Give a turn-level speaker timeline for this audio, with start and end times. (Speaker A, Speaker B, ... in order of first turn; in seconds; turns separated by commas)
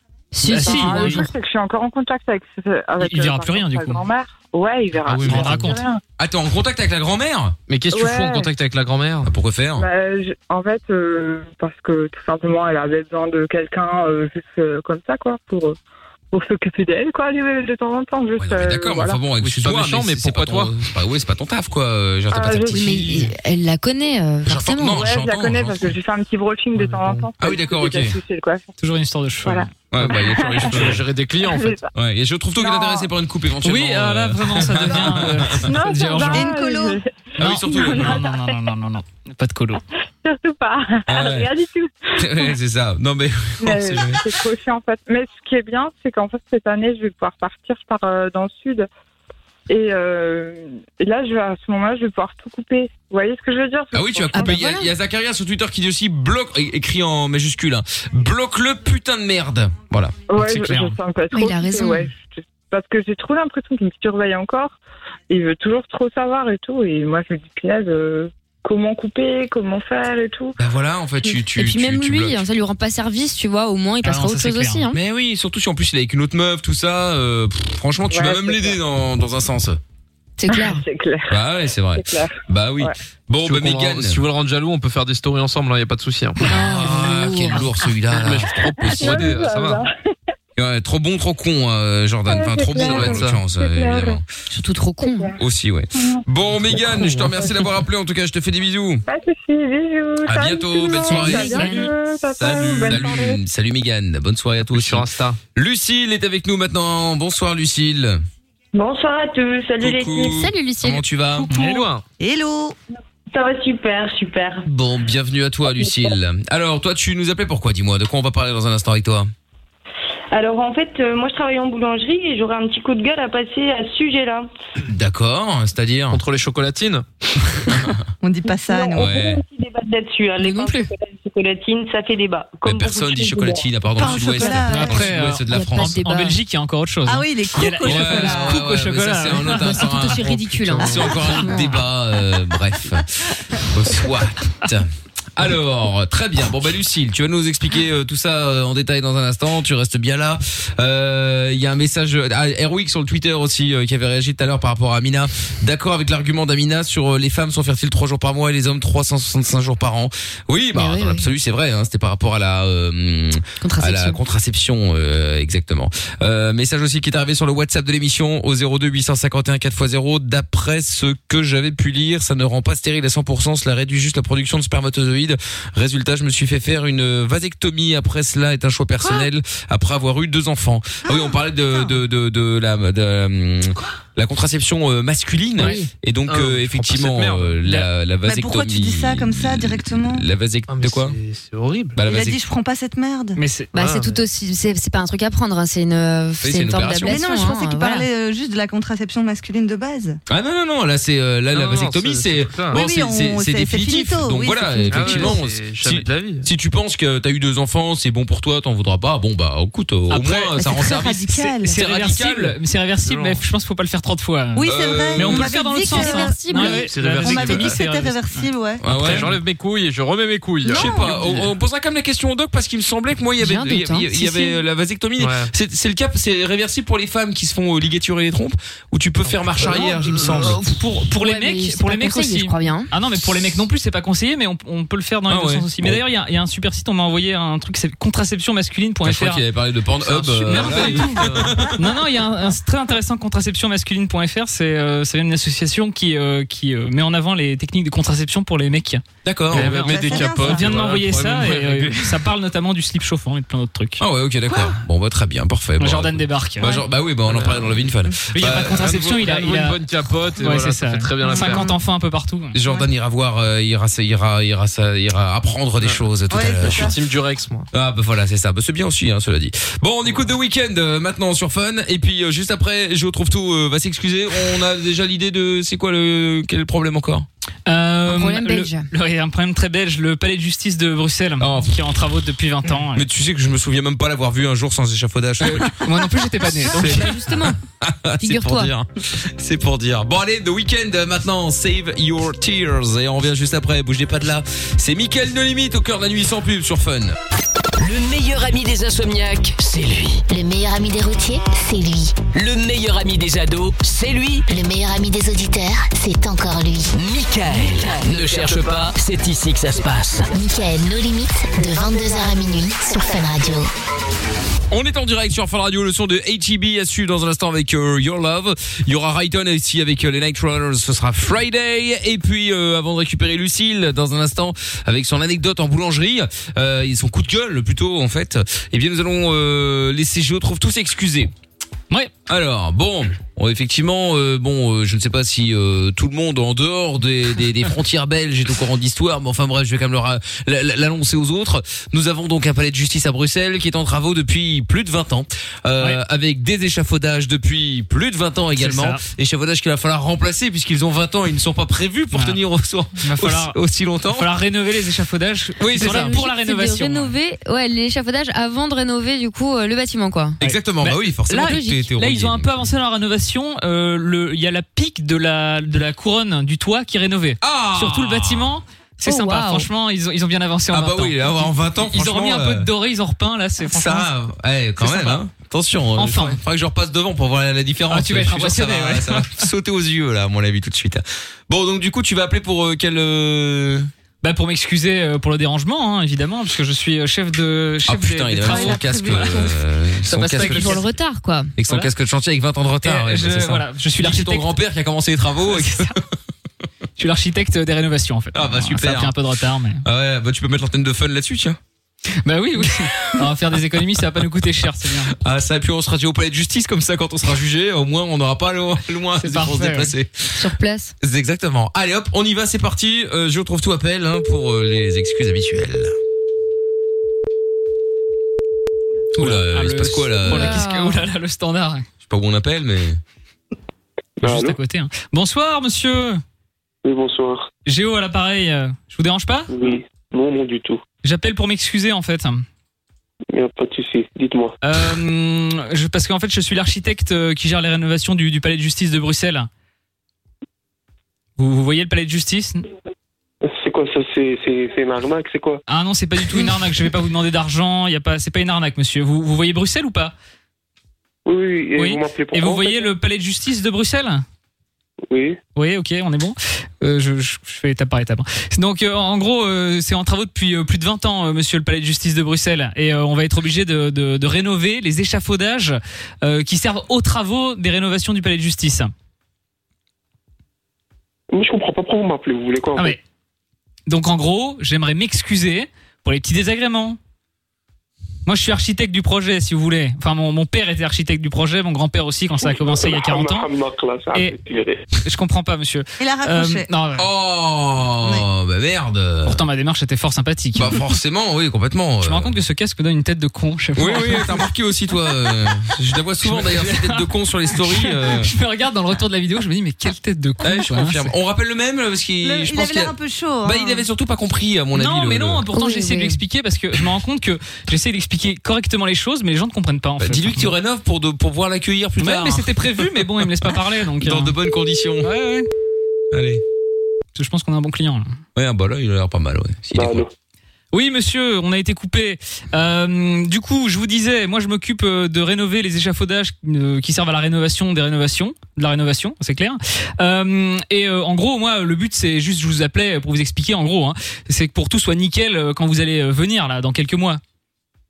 Speaker A: 0.3-1.3, Speaker B: 0.4-1.3, Speaker C: 0.5-6.0, Speaker B: 3.0-4.0, Speaker D: 5.0-5.8, Speaker B: 5.2-5.8, Speaker E: 6.2-7.5, Speaker D: 7.7-9.3, Speaker C: 7.9-8.5, Speaker E: 9.2-9.9, Speaker C: 9.8-15.8, Speaker C: 16.3-19.2, Speaker E: 18.4-23.3, Speaker D: 19.4-20.7, Speaker C: 22.3-23.3, Speaker A: 22.7-25.1, Speaker E: 24.4-25.9, Speaker C: 24.8-28.7, Speaker D: 26.8-27.3, Speaker E: 27.4-28.1, Speaker B: 28.8-29.7, Speaker C: 29.4-30.9, Speaker E: 29.9-31.0, Speaker D: 30.7-31.8, Speaker C: 31.4-31.9, Speaker E: 31.9-35.7, Speaker C: 32.6-33.1, Speaker B: 33.6-36.5, Speaker C: 35.1-38.5, Speaker F: 36.3-37.0, Speaker E: 37.4-38.2, Speaker B: 37.4-39.8, Speaker C: 40.2-42.3, Speaker E: 41.1-41.5, Speaker E: 42.2-44.3, Speaker C: 43.6-48.9, Speaker C: 49.7-54.6, Speaker E: 53.9-60.2, Speaker A: 54.3-54.9, Speaker C: 60.3-64.8, Speaker B: 60.3-61.0, Speaker A: 61.3-62.1, Speaker C: 65.3-70.6, Speaker E: 70.6-72.4, Speaker A: 71.5-75.0, Speaker B: 74.0-74.9, Speaker E: 74.9-79.8, Speaker C: 78.1-78.8, Speaker A: 80.4-80.8, Speaker C: 80.5-81.4, Speaker E: 81.3-84.2, Speaker C: 82.0-82.9, Speaker D: 83.4-86.4, Speaker A: 86.4-87.9, Speaker E: 86.4-89.4, Speaker D: 88.1-89.8, Speaker C: 88.9-89.9, Speaker E: 90.6-94.2, Speaker C: 92.3-94.2, Speaker D: 92.8-93.4, Speaker A: 94.5-95.4, Speaker C: 95.0-95.3, Speaker E: 95.4-99.0, Speaker D: 96.5-97.5, Speaker C: 99.1-103.4, Speaker E: 100.2-101.8, Speaker A: 100.8-101.9, Speaker E: 102.4-108.2, Speaker D: 102.4-103.0, Speaker D: 104.7-105.4, Speaker G: 108.7-110.4, Speaker E: 109.8-111.5, Speaker A: 110.2-111.7, Speaker D: 111.5-112.0, Speaker B: 111.5-111.9, Speaker F: 112.2-112.8, Speaker G: 113.3-114.7, Speaker E: 114.7-119.3, Speaker G: 115.8-116.1, Speaker G: 120.3-124.5, Speaker E: 124.8-126.2, Speaker D: 126.1-127.0, Speaker E: 127.7-128.0, Speaker F: 128.2-129.1, Speaker G: 128.5-133.7, Speaker E: 129.0-129.4, Speaker A: 130.4-130.9, Speaker E: 132.6-136.0, Speaker F: 133.9-135.1, Speaker B: 134.4-139.8, Speaker A: 135.5-136.4, Speaker F: 137.1-138.6, Speaker E: 137.8-191.2, Speaker A: 139.4-141.9, Speaker D: 140.3-141.2, Speaker A: 160.7-161.3, Speaker A: 163.6-164.2, Speaker F: 181.0-181.9, Speaker A: 185.6-185.9, Speaker D: 186.3-187.6, Speaker F: 188.2-190.2, Speaker D: 190.7-192.0, Speaker E: 191.9-192.4, Speaker F: 192.0-193.4, Speaker B: 193.4-193.9, Speaker D: 193.7-194.2, Speaker A: 193.7-198.1, Speaker E: 196.4-197.2, Speaker F: 197.0-200.2, Speaker E: 200.3-212.5, Speaker D: 201.5-202.8, Speaker F: 202.7-205.3, Speaker D: 204.8-206.4, Speaker D: 210.1-210.4, Speaker F: 210.5-211.7, Speaker B: 211.3-219.3, Speaker D: 213.0-213.4, Speaker F: 214.6-216.7, Speaker E: 214.6-215.5, Speaker A: 215.7-216.9, Speaker D: 216.7-217.8, Speaker F: 217.2-218.8, Speaker E: 218.8-219.4, Speaker D: 218.8-221.5, Speaker F: 220.6-221.2, Speaker E: 220.7-230.6, Speaker A: 223.4-224.6, Speaker D: 225.2-225.5, Speaker D: 229.3-229.8, Speaker B: 229.6-239.4, Speaker A: 231.1-232.9, Speaker E: 235.3-236.0, Speaker E: 239.0-241.7, Speaker B: 240.1-254.0, Speaker D: 240.2-241.7, Speaker E: 249.2-250.0, Speaker D: 249.5-252.2, Speaker F: 249.8-250.7, Speaker E: 254.0-258.8, Speaker B: 255.8-256.8, Speaker D: 257.2-257.8, Speaker B: 258.3-262.6, Speaker D: 258.4-261.7, Speaker F: 261.2-261.8, Speaker E: 262.5-266.9, Speaker F: 262.6-262.9, Speaker F: 266.3-266.9, Speaker D: 266.6-267.7, Speaker E: 267.7-277.3, Speaker B: 277.6-283.1, Speaker A: 278.1-278.9, Speaker E: 281.4-281.8, Speaker E: 282.9-285.9, Speaker B: 285.4-287.3, Speaker E: 286.6-297.1, Speaker A: 286.7-287.6, Speaker A: 288.2-288.7, Speaker H: 297.8-300.2, Speaker I: 300.3-302.2, Speaker H: 302.3-304.5, Speaker I: 304.5-306.9, Speaker H: 306.9-310.3, Speaker I: 310.3-313.7, Speaker E: 314.7-331.3, Speaker E: 332.3-354.3, Speaker B: 348.6-349.0, Speaker B: 353.0-353.6, Speaker B: 354.1-357.1, Speaker E: 355.6-356.1, Speaker A: 355.6-360.4, Speaker E: 360.4-362.7, Speaker B: 360.4-374.1, Speaker A: 361.4-361.8, Speaker E: 367.4-368.6, Speaker A: 369.0-369.7, Speaker E: 370.7-372.7, Speaker E: 373.6-383.9, Speaker B: 374.8-375.2, Speaker B: 376.0-376.4, Speaker B: 377.9-379.4, Speaker B: 384.2-389.4, Speaker E: 387.9-390.9, Speaker F: 388.4-389.6, Speaker B: 390.1-390.9, Speaker A: 390.2-391.5, Speaker E: 391.6-395.9, Speaker B: 392.8-394.6, Speaker B: 395.4-396.0, Speaker B: 397.0-399.8, Speaker E: 398.3-399.1, Speaker E: 399.8-401.6, Speaker B: 402.2-405.1, Speaker E: 405.1-410.1, Speaker B: 409.2-409.9, Speaker A: 410.3-410.9, Speaker E: 411.0-415.9, Speaker E: 419.1-420.6, Speaker B: 419.2-421.9, Speaker A: 420.2-421.1, Speaker E: 422.1-423.0, Speaker J: 424.2-424.6, Speaker B: 424.2-426.2, Speaker J: 426.8-427.5, Speaker B: 427.6-429.5, Speaker J: 429.5-430.8, Speaker B: 431.0-432.4, Speaker J: 433.3-434.5, Speaker B: 434.6-439.5, Speaker B: 441.4-442.6, Speaker J: 443.4-445.6, Speaker B: 445.7-450.1, Speaker J: 451.2-452.9, Speaker B: 451.8-454.2, Speaker J: 455.1-455.4, Speaker B: 455.5-468.9, Speaker J: 471.3-473.0, Speaker B: 473.9-477.0, Speaker B: 478.2-483.5, Speaker J: 482.3-484.8, Speaker B: 485.0-487.1, Speaker F: 486.0-486.7, Speaker E: 487.0-489.4, Speaker F: 488.0-488.3, Speaker B: 489.2-490.7, Speaker E: 490.6-492.4, Speaker B: 492.0-494.4, Speaker E: 493.8-498.3, Speaker B: 496.2-501.1, Speaker E: 500.4-505.4, Speaker F: 502.2-503.9, Speaker B: 504.7-510.5, Speaker A: 505.5-506.2, Speaker E: 510.0-515.1, Speaker B: 512.0-514.3, Speaker B: 515.0-515.5, Speaker E: 516.1-516.4, Speaker B: 517.1-518.1, Speaker E: 518.4-520.0, Speaker J: 519.7-520.1, Speaker B: 520.7-537.2